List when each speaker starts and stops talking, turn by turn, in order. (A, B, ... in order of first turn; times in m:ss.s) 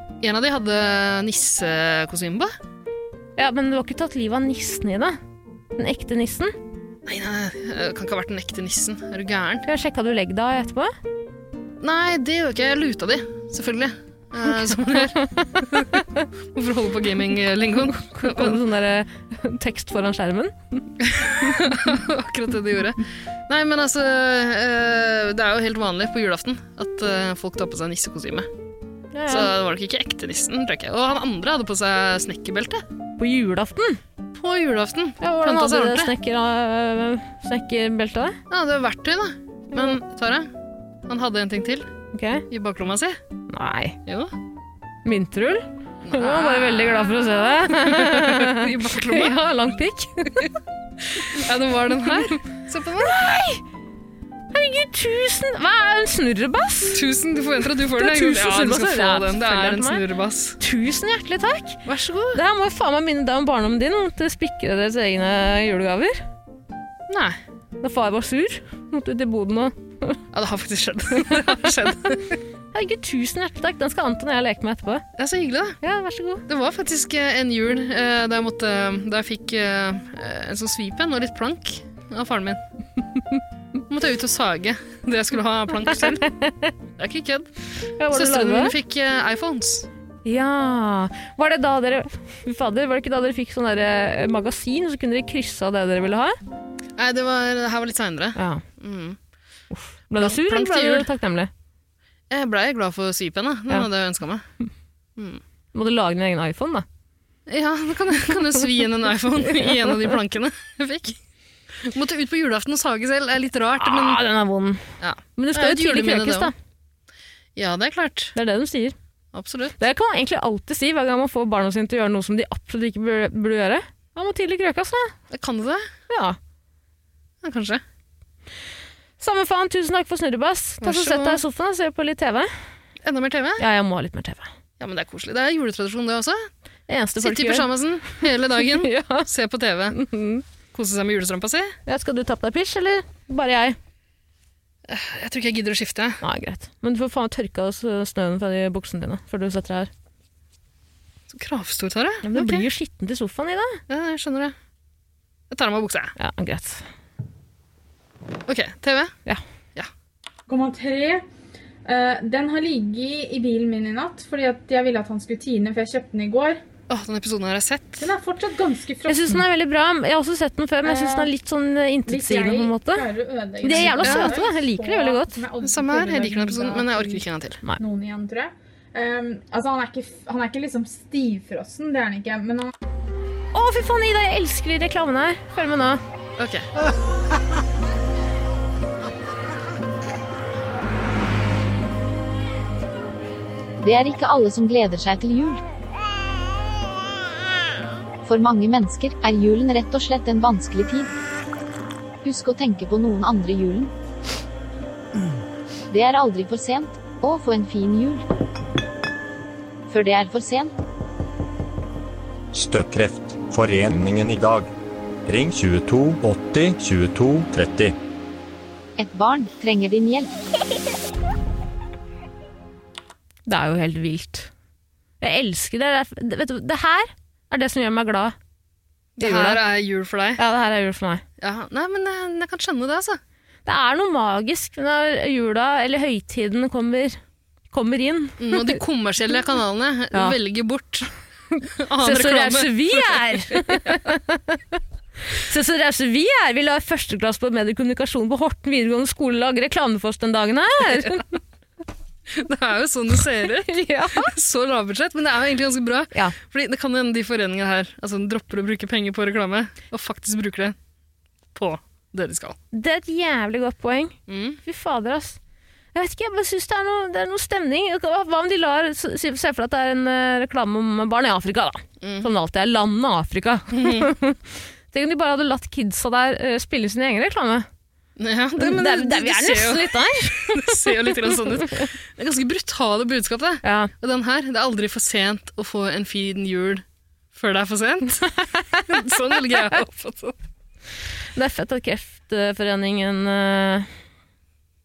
0:00.2-0:02.5 A
0:03.4-0:05.2 B
0:05.8-0:06.5 B
0:07.0-0:09.6 A
0:09.6-0:10.9 B
0:11.8-0:16.0 A
0:15.4-0:16.2 B
0:16.5-0:18.6 A
0:17.9-0:20.8 B
0:21.0-0:28.5 A
0:29.1-0:29.5 B
0:29.3-0:32.8 A
0:33.2-0:34.0 B
0:34.4-0:36.1 A
0:35.2-0:38.4 B
0:38.5-0:40.5 A
0:41.1-0:41.9 A
0:42.1-0:42.4 B
0:42.5-0:43.2 A
0:43.5-0:44.0 B
0:44.0-0:44.3 A
0:45.0-0:50.5 B
0:46.0-0:49.4 A
0:51.1-0:53.2 A
0:53.0-0:53.6 B
0:54.5-0:57.0 B
0:56.9-1:00.6 A
0:58.0-1:00.0 B
1:00.6-1:01.8 B
1:01.8-1:02.4 A
1:02.3-1:06.2 B
1:07.1-1:07.4 A
1:07.8-1:10.2 B
1:10.3-1:12.4 A
1:12.7-1:15.0 B
1:15.2-1:15.8 A
1:15.8-1:16.4 B
1:16.5-1:22.6 A
1:23.9-1:26.3 A
1:26.0-1:26.7 B
1:27.0-1:27.5 A
1:28.0-1:28.7 B
1:28.1-1:29.9 A
1:30.2-1:36.4 B
1:37.0-1:39.2 A
1:38.4-1:38.6 B
1:39.7-1:41.5 B
1:40.2-1:41.1 A
1:42.3-1:44.4 A
1:45.2-1:45.4 A
1:45.7-1:46.8 B
1:47.5-1:51.2 A
1:49.6-1:50.1 B
1:51.8-1:54.2 A
1:53.8-1:54.8 B
1:55.0-1:56.5 A
1:55.4-1:56.5 B
1:57.6-1:58.3 A
1:58.3-1:58.9 B
1:59.3-1:59.8 A
1:59.8-2:05.1 B
2:05.3-2:05.9 A
2:06.1-2:06.4 B
2:07.4-2:07.8 A
2:09.2-2:12.5 B
2:10.8-2:11.4 A
2:13.0-2:13.6 A
2:13.6-2:14.5 B
2:14.8-2:16.5 A
2:16.9-2:17.7 B
2:17.2-2:20.0 A
2:18.8-2:19.3 B
2:19.9-2:20.4 B
2:20.7-2:21.7 A
2:21.9-2:23.8 B
2:24.9-2:26.2 A
2:26.2-2:29.9 B
2:31.3-2:32.6 A
2:32.2-2:33.8 B
2:33.9-2:34.5 A
2:35.5-2:36.1 A
2:36.2-2:36.8 B
2:38.5-2:39.1 A
2:40.5-2:41.2 C
2:41.8-2:46.6 C
2:46.9-2:48.0 A
2:48.0-2:49.4 C
2:49.0-2:53.1 B
2:50.8-2:51.3 C
2:52.1-2:57.2 C
2:53.6-2:55.4 B
2:54.0-2:54.4 A
2:55.6-2:57.6 A
2:57.8-3:02.7 C
3:03.5-3:06.0 B
3:06.4-3:06.7 A
3:13.8-3:15.6 D
3:18.2-3:21.1 D
3:22.2-3:23.9 D
3:25.9-3:28.2 D
3:29.9-3:30.7 D
3:32.5-3:34.7 E
3:35.3-3:38.0 E
3:39.0-3:40.3 D
3:43.5-3:44.5 B
3:45.2-3:48.3 B
3:49.2-3:50.4 A
3:49.2-3:49.6 B
3:50.4-3:51.2 B
3:51.4-3:53.2 A
3:53.6-3:57.2 B
3:57.7-3:58.8 B
3:58.4-4:01.1 A
4:01.6-4:04.8 B
4:01.8-4:04.0 A
4:05.3-4:11.2 B
4:12.3-4:20.8 A
4:13.7-4:14.3 B
4:21.5-4:22.6 A
4:22.7-4:25.4 B
4:24.3-4:24.6 A
4:25.9-4:37.7 B
4:32.0-4:32.3 A
4:33.7-4:34.1 A
4:38.2-4:50.3 A
4:38.6-4:41.9 B
4:43.6-4:43.9 B
4:48.5-4:48.8 B
4:51.3-4:53.9 B